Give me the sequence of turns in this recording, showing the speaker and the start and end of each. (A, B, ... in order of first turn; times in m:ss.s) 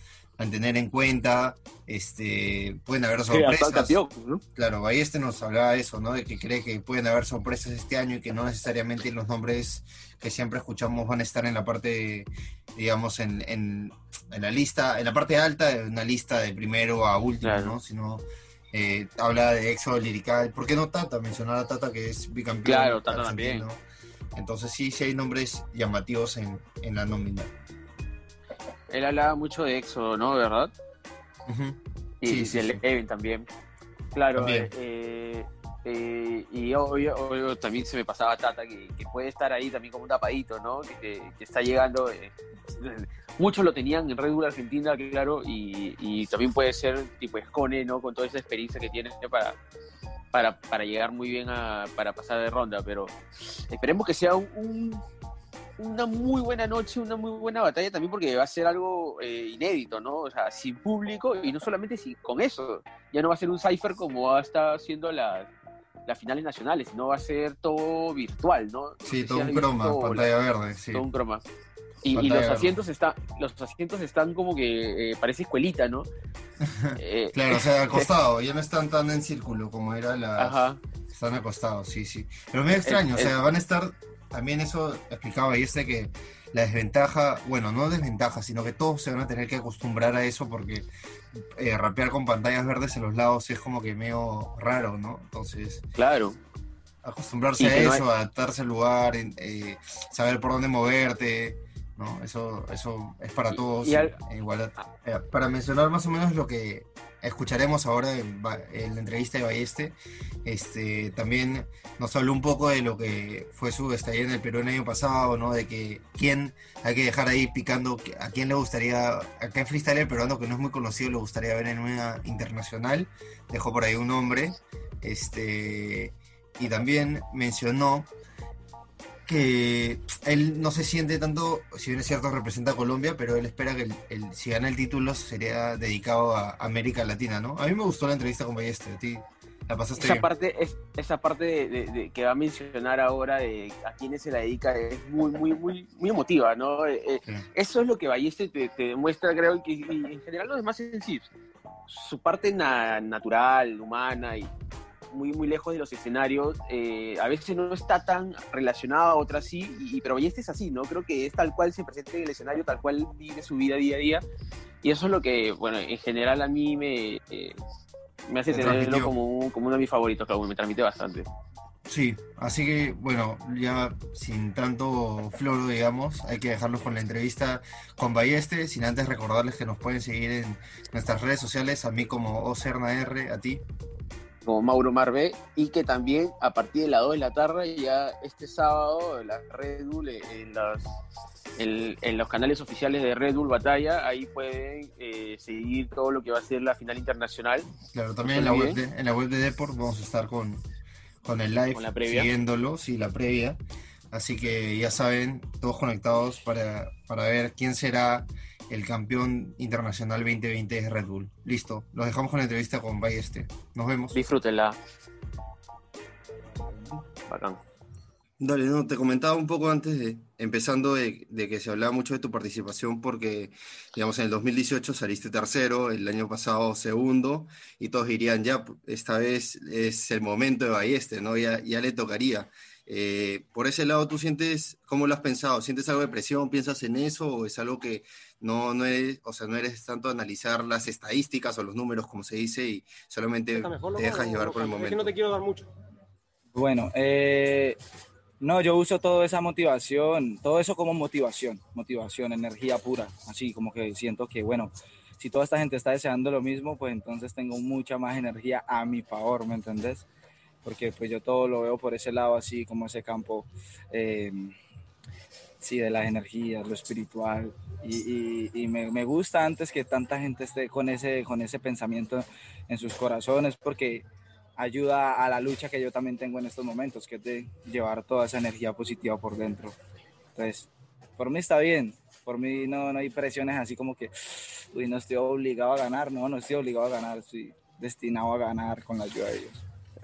0:00.4-0:04.0 A
0:03.3-0:04.4 B
0:04.6-0:23.8 A
0:17.4-0:17.8 B
0:22.6-0:23.6 B
0:24.4-0:27.5 A
0:28.9-0:30.7 B
0:31.5-0:32.8 A
0:32.2-0:33.5 B
0:34.1-0:49.6 B
0:34.4-0:34.7 A
0:50.3-0:53.1 B
0:53.7-0:55.0 B
0:55.8-1:05.5 B
1:06.1-1:10.3 B
1:09.1-1:11.0 A
1:10.9-1:11.4 B
1:12.0-1:16.1 B
1:12.1-1:12.8 A
1:16.8-1:30.9 A
1:17.0-1:18.1 B
1:20.4-1:20.8 B
1:22.8-1:23.4 B
1:31.6-1:35.8 A
1:36.0-1:36.4 B
1:37.0-2:08.1 A
1:37.6-1:38.0 B
1:43.5-1:44.2 B
2:09.3-2:20.3 A
2:20.0-2:31.3 B
2:31.9-2:34.5 B
2:35.1-2:44.2 B
2:44.8-2:47.6 B
2:48.3-2:51.3 B
2:48.5-2:49.1 A
2:51.9-3:03.6 A
3:04.5-3:10.9 B
3:11.6-3:17.7 B
3:17.9-3:20.6 A
3:18.3-3:18.8 B
3:21.2-3:23.6 A
3:21.7-3:22.3 B
3:24.1-3:34.2 A
3:34.1-3:34.8 B
3:37.3-3:37.6 B
3:38.4-4:05.1 A
4:03.6-4:05.7 C
4:06.5-4:07.8 D
4:08.4-4:20.1 D
4:20.6-4:24.6 D
4:25.6-4:34.0 D
4:34.6-4:39.8 D
4:40.4-4:49.6 D